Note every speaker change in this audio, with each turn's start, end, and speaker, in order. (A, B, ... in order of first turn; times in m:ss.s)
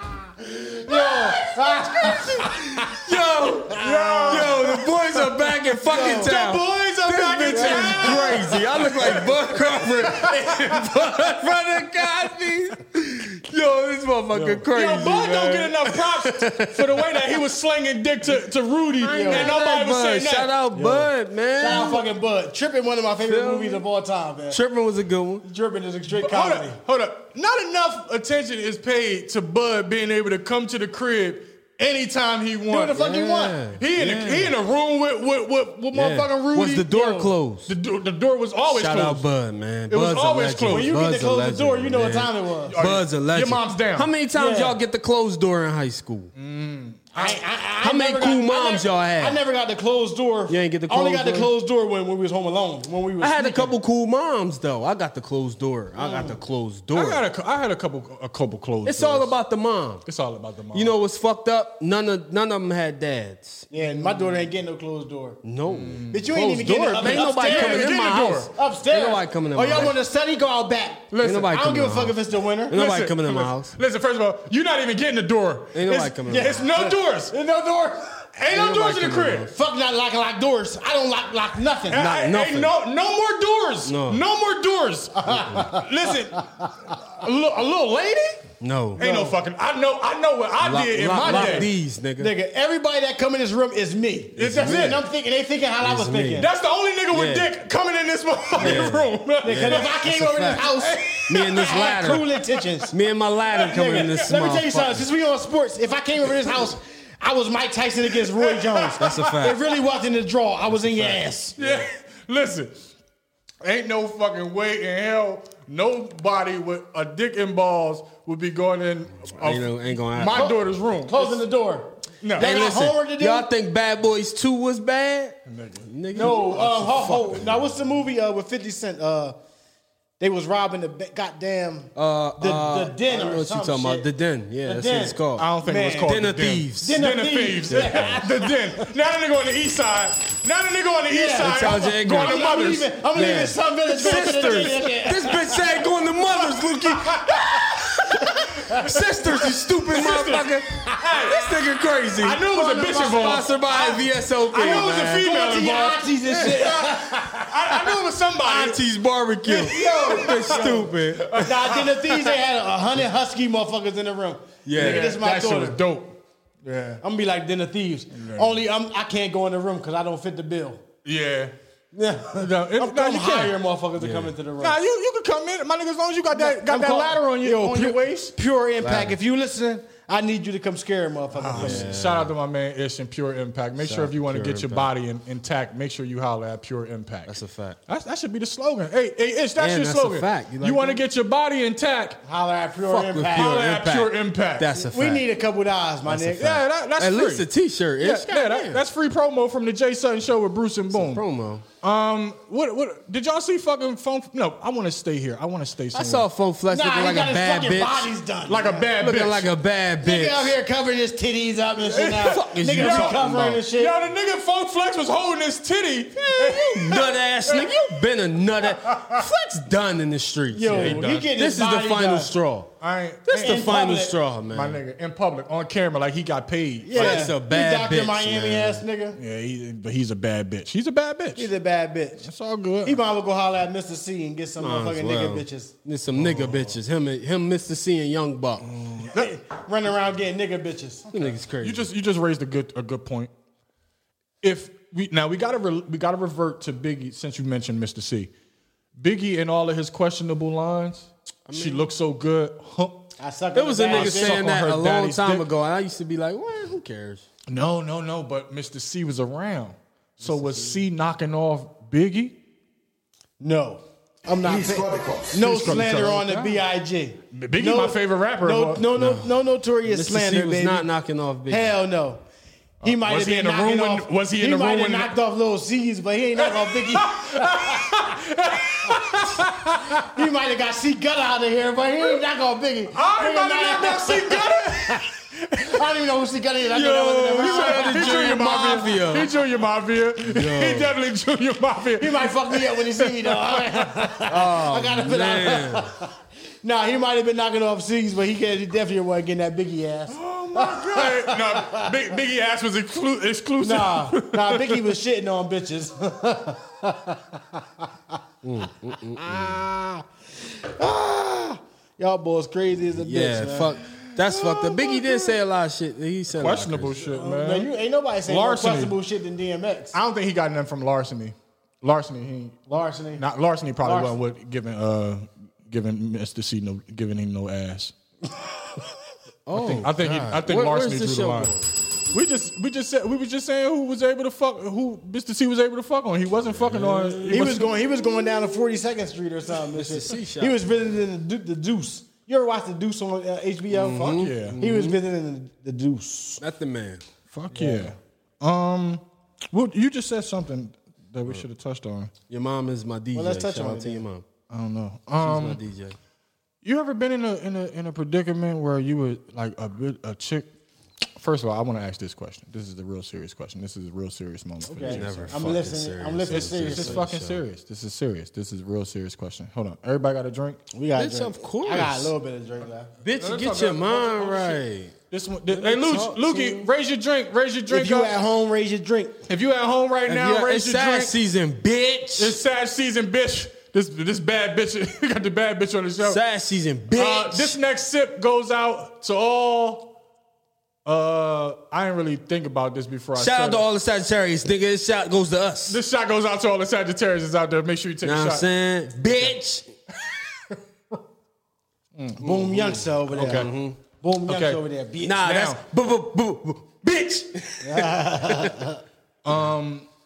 0:00.6-0:02.6 A
0:00.8-0:03.1 B
0:02.1-0:17.4 C
0:03.4-0:04.6 A
0:03.7-0:11.6 B
0:05.9-0:06.3 A
0:07.5-0:08.4 A
0:14.3-0:21.0 B
0:19.0-0:19.5 A
0:19.1-0:22.0 C
0:21.6-0:24.6 A
0:23.2-0:23.8 C
0:24.5-0:25.4 C
0:25.4-0:26.8 A
0:26.1-0:33.0 B
0:32.7-0:33.6 A
0:32.9-0:34.5 C
0:33.8-0:39.2 B
0:35.9-0:37.7 C
0:38.7-0:46.3 C
0:39.9-0:40.9 B
0:40.7-0:42.8 A
0:42.7-0:44.1 B
0:44.3-0:44.8 A
0:46.3-0:47.4 B
0:47.1-0:53.7 A
0:47.8-0:49.4 C
0:50.5-0:51.5 C
0:53.2-0:57.2 C
0:56.0-0:56.4 A
0:56.9-0:59.3 B
0:58.8-1:00.0 C
1:00.0-1:01.0 B
1:00.7-1:03.7 C
1:03.7-1:05.4 A
1:03.8-1:04.4 B
1:05.4-1:10.0 C
1:05.7-1:06.4 B
1:06.1-1:12.8 A
1:06.9-1:08.5 B
1:11.1-1:11.6 B
1:11.2-1:13.7 C
1:12.7-1:17.3 B
1:15.7-1:16.6 C
1:16.3-1:18.2 A
1:18.4-1:19.5 B
1:18.5-1:19.5 C
1:19.4-1:22.0 A
1:21.9-1:28.4 B
1:21.9-1:22.7 C
1:23.8-1:24.2 C
1:25.2-1:25.9 A
1:28.6-1:29.0 C
1:29.0-1:31.7 B
1:29.0-1:29.4 A
1:30.6-1:32.3 C
1:31.1-1:36.5 A
1:34.4-1:35.0 B
1:35.8-1:36.5 C
1:36.4-1:41.5 B
1:37.1-1:37.5 C
1:38.6-1:42.9 A
1:38.6-1:42.2 C
1:42.5-1:42.9 B
1:42.9-1:45.0 C
1:43.5-1:44.6 B
1:43.6-1:51.6 A
1:48.1-1:49.5 B
1:49.0-1:49.7 C
1:50.9-1:51.7 C
1:51.6-1:52.9 B
1:53.6-2:01.4 B
1:59.4-2:00.5 C
2:00.3-2:03.5 A
2:02.2-2:02.6 B
2:02.4-2:07.4 C
2:05.5-2:07.1 B
2:06.1-2:09.4 A
2:10.2-2:14.0 A
2:12.0-2:15.5 C
2:14.6-2:16.2 A
2:15.4-2:22.9 B
2:16.0-2:17.0 C
2:16.8-2:18.8 A
2:17.7-2:18.2 C
2:21.1-2:25.6 A
2:21.4-2:22.4 C
2:23.1-2:35.3 C
2:23.9-2:25.4 B
2:26.2-2:31.6 B
2:28.3-2:28.8 A
2:32.2-2:38.8 B
2:32.5-2:34.0 A
2:34.5-2:37.5 A
2:38.4-2:42.3 C
2:39.4-2:41.9 B
2:39.6-2:45.8 A
2:44.6-2:45.2 C
2:44.7-2:47.0 B
2:47.0-2:50.8 A
2:48.1-2:48.6 B
2:51.0-2:51.5 B
2:51.9-2:54.8 A
2:52.3-2:53.6 B
2:54.0-2:54.3 C
2:54.6-2:58.3 B
2:56.3-3:01.9 A
2:58.8-2:59.2 C
3:01.3-3:12.2 B
3:01.5-3:02.3 C
3:03.8-3:04.9 C
3:07.3-3:07.8 C
3:09.6-3:11.0 C
3:12.2-3:13.6 A
3:12.9-3:15.3 C
3:13.2-3:14.7 B
3:14.7-3:16.6 A
3:16.1-3:18.8 C
3:16.3-3:17.5 B
3:18.0-3:21.2 B
3:20.9-3:21.6 C
3:21.8-3:26.2 B
3:25.9-3:28.1 C
3:26.7-3:28.9 A
3:28.5-3:29.5 B
3:29.0-3:30.6 C
3:30.0-3:34.0 A
3:31.8-3:38.0 B
3:32.2-3:33.6 C
3:36.2-3:42.7 C
3:38.6-3:39.2 B
3:40.5-3:42.3 A
3:40.7-3:41.3 B
3:42.8-3:43.7 B
3:43.3-3:44.8 C
3:43.4-3:44.2 A
3:44.5-3:47.3 B
3:46.8-3:49.2 A
3:46.9-3:48.8 C
3:49.2-3:51.5 B
3:51.4-3:52.3 A
3:52.2-3:53.0 B
3:52.8-3:55.7 A
3:54.6-3:58.7 C
3:56.1-3:56.8 B
3:58.6-3:59.3 B
3:59.0-4:01.3 A
4:01.1-4:01.9 C
4:01.6-4:03.3 B
4:04.4-4:08.3 B
4:09.0-4:13.1 B
4:11.5-4:11.9 C
4:13.2-4:14.4 A
4:13.5-4:17.3 C
4:13.8-4:15.5 B
4:17.5-4:22.4 B
4:20.2-4:20.8 C
4:23.4-4:30.9 A
4:25.3-4:26.6 B
4:27.3-4:28.9 B
4:29.0-4:31.7 C
4:31.5-4:32.2 A
4:32.8-4:35.2 B
4:32.8-4:38.0 A
4:36.4-4:40.0 B
4:39.9-4:45.1 A
4:42.9-4:45.8 B
4:45.6-4:48.4 A
4:46.7-4:49.3 C
4:47.4-4:54.0 B
4:50.2-4:50.9 C
4:52.0-4:56.1 A
4:54.3-4:55.9 C
4:56.6-5:01.9 A
5:00.1-5:04.9 B
5:03.6-5:07.8 A
5:08.4-5:09.6 C
5:09.1-5:13.8 A
5:13.0-5:17.0 C
5:14.2-5:15.4 B
5:16.3-5:17.7 B
5:17.0-5:20.0 A
5:18.2-5:19.0 B
5:19.9-5:22.6 B
5:22.7-5:23.2 A
5:23.2-5:27.9 B
5:23.8-5:24.1 A
5:29.5-5:31.7 C
5:29.5-5:31.5 B
5:32.1-5:37.7 B
5:36.6-5:37.6 C
5:37.3-5:46.4 A
5:39.7-5:40.6 C
5:43.7-5:45.0 C
5:44.1-5:44.6 B
5:46.4-5:47.0 C
5:47.3-5:52.1 B
5:47.5-5:47.9 A
5:52.3-5:54.2 C
5:53.1-5:54.0 A
5:54.5-5:55.6 B
5:55.2-5:56.0 C
5:56.6-6:00.5 B
6:01.2-6:05.5 B
6:04.6-6:07.0 A
6:04.8-6:07.4 C
6:06.3-6:10.6 B
6:10.7-6:12.9 A
6:10.9-6:12.1 C
6:13.0-6:14.9 C
6:13.2-6:18.2 B
6:15.5-6:16.7 C
6:17.7-6:19.2 A
6:19.3-6:21.1 B
6:20.1-6:22.4 C
6:22.2-6:26.2 B
6:26.0-6:27.6 C
6:26.9-6:29.9 B
6:30.8-6:33.6 B
6:33.2-6:35.8 C
6:35.7-6:38.5 B
6:38.0-6:39.7 C
6:42.0-6:42.3 B
6:42.2-6:45.2 A
6:42.2-6:43.8 C
6:43.1-6:43.5 B
6:44.2-6:44.6 B
6:45.0-6:48.7 C
6:45.2-6:45.6 B
6:47.6-6:48.8 A
6:49.2-6:49.9 B